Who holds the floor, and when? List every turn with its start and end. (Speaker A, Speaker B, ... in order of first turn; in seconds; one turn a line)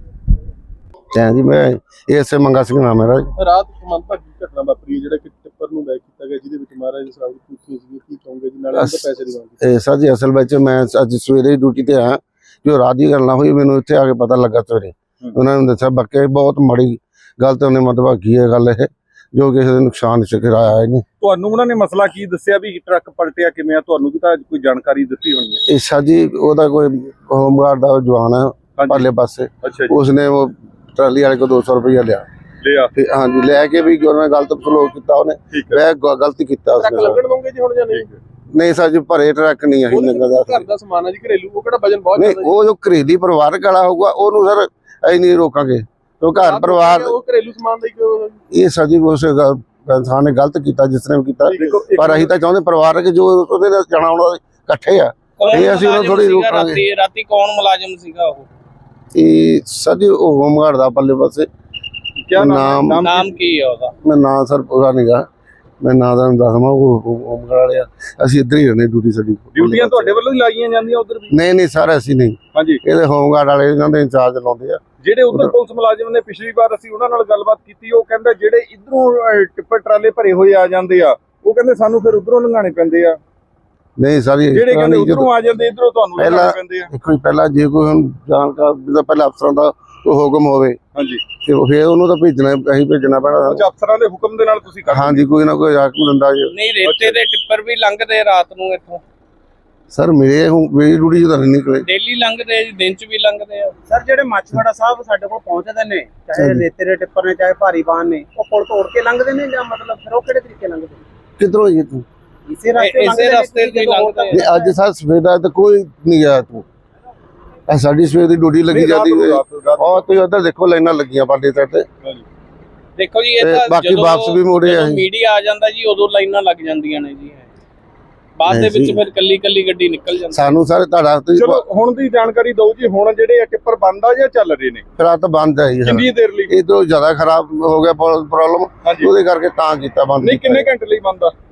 Speaker A: 1.1-3.3
Speaker B: 3.4-9.6
Speaker A: 8.8-9.0
Speaker A: 9.6-21.0
Speaker C: 21.2-25.6
Speaker A: 25.7-32.3
Speaker C: 28.8-29.1
Speaker C: 29.6-30.0
Speaker C: 32.6-32.9
Speaker A: 33.0-37.2
Speaker C: 35.5-35.8
Speaker B: 36.8-38.2
Speaker A: 38.5-40.6
Speaker B: 39.9-42.6
Speaker A: 42.2-47.2
Speaker B: 46.4-48.4
Speaker A: 48.5-56.9
Speaker B: 51.5-52.3
Speaker C: 51.5-52.0
Speaker D: 55.4-58.5
Speaker A: 59.1-61.5
Speaker C: 62.2-63.3
Speaker A: 62.4-63.0
Speaker D: 63.0-63.9
Speaker A: 64.0-65.2
Speaker A: 65.8-70.2
Speaker C: 69.5-71.3
Speaker A: 71.3-74.8
Speaker C: 72.5-72.8
Speaker C: 75.0-83.2
Speaker A: 84.0-85.3
Speaker C: 84.5-86.9
Speaker A: 86.2-90.8
Speaker C: 91.0-91.2
Speaker A: 91.4-93.6
Speaker C: 93.5-95.2
Speaker A: 94.9-96.5
Speaker D: 96.5-99.0
Speaker C: 96.8-97.3
Speaker A: 99.9-101.9
Speaker D: 101.9-103.7
Speaker E: 103.9-111.0
Speaker A: 106.4-106.6
Speaker A: 111.4-112.0
Speaker E: 112.5-114.7
Speaker D: 112.8-114.4
Speaker A: 114.3-116.7
Speaker A: 117.7-121.9
Speaker C: 118.7-120.1
Speaker D: 123.0-127.5
Speaker A: 123.4-125.1
Speaker D: 128.4-130.5
Speaker A: 128.5-129.0
Speaker A: 130.3-131.6
Speaker C: 131.4-134.8
Speaker A: 135.0-140.7
Speaker C: 135.8-136.5
Speaker C: 138.8-139.1
Speaker C: 140.2-141.3